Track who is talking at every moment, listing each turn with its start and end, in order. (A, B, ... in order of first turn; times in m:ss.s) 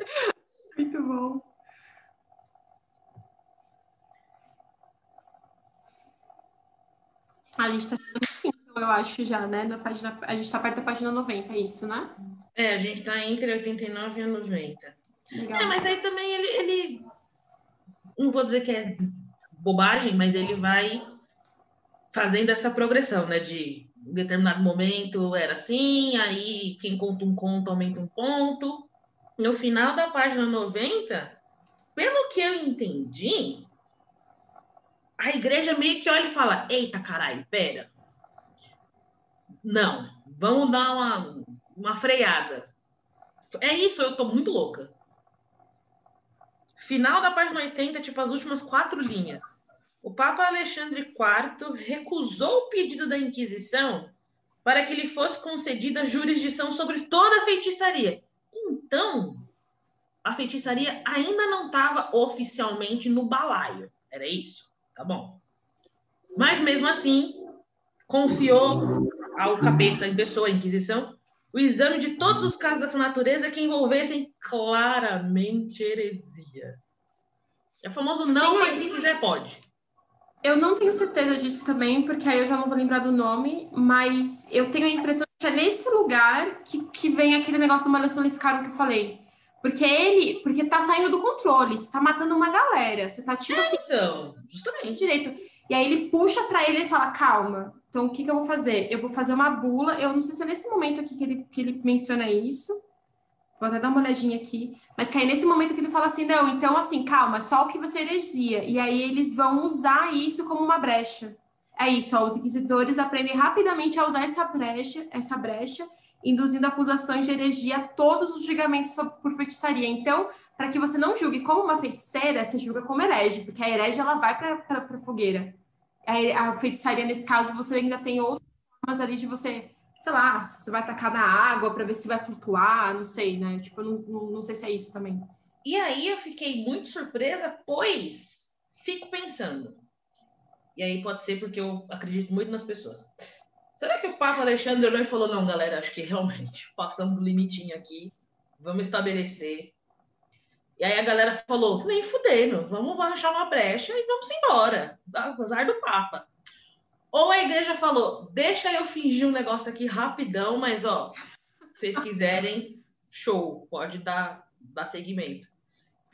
0:00.8-0:01.5 A
0:07.6-0:12.1 A
0:12.5-0:15.0 B
0:15.3-0:15.8 A
0:15.5-0:17.0 B
0:18.2-0:21.0 B
0:22.1-0:31.4 B
0:31.9-0:33.7 B
0:35.2-0:37.9 B
0:39.6-0:42.7 B
0:43.5-0:44.9 B
0:46.8-0:59.5 B
1:00.2-1:05.4 B
1:06.4-1:07.4 B
1:08.1-1:16.8 B
1:17.8-1:19.6 B
1:18.3-1:18.9 A
1:20.4-1:33.8 A
1:33.5-1:35.0 B
1:34.8-1:42.8 A
1:43.6-2:15.3 A
2:15.6-2:19.8 B
2:20.8-2:23.1 B
2:23.8-2:29.7 B
2:30.8-2:36.3 B
2:37.1-2:41.2 B
2:41.8-2:45.5 B